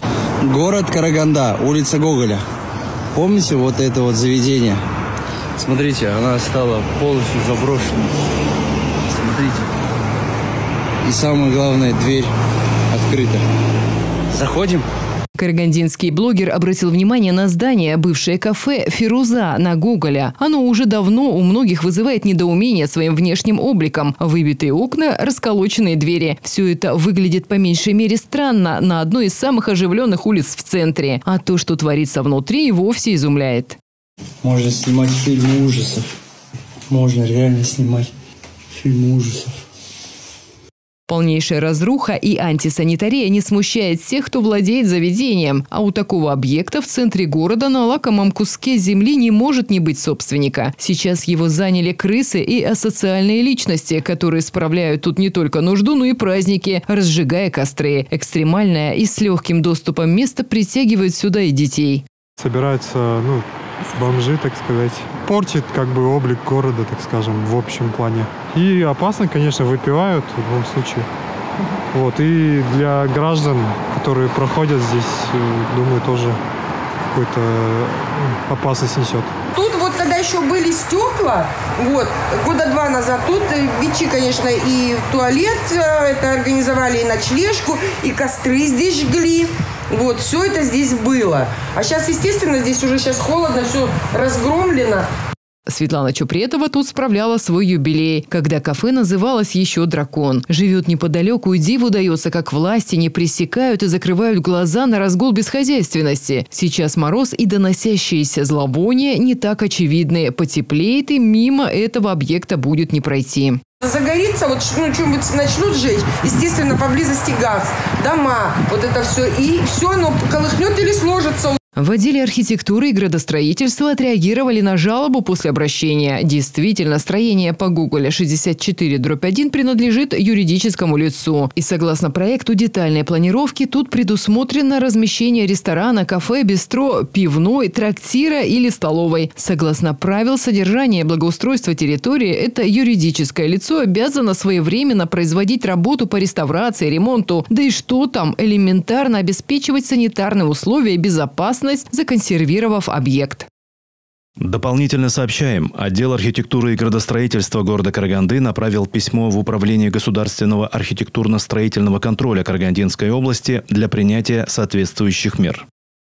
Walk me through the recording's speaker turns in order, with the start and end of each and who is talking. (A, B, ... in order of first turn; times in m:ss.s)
0:00.4-0:02.4 A
0:03.1-0:04.8 A
0:05.6-0:08.1 A
0:09.1-0:09.7 A
0:11.0-0:12.3 A
0:12.9-0:13.4 A
0:14.3-0:14.8 A
0:15.4-0:33.8 B
0:34.4-0:36.1 A
0:36.9-0:38.1 A
0:38.8-0:39.5 A
0:41.1-1:02.0 B
1:02.4-1:11.0 C
1:11.9-1:16.4 C
1:17.1-1:19.3 C
1:19.5-1:35.1 D
1:35.7-1:53.6 B
1:53.8-2:01.6 D
2:01.8-2:33.5 B
2:34.4-2:45.6 E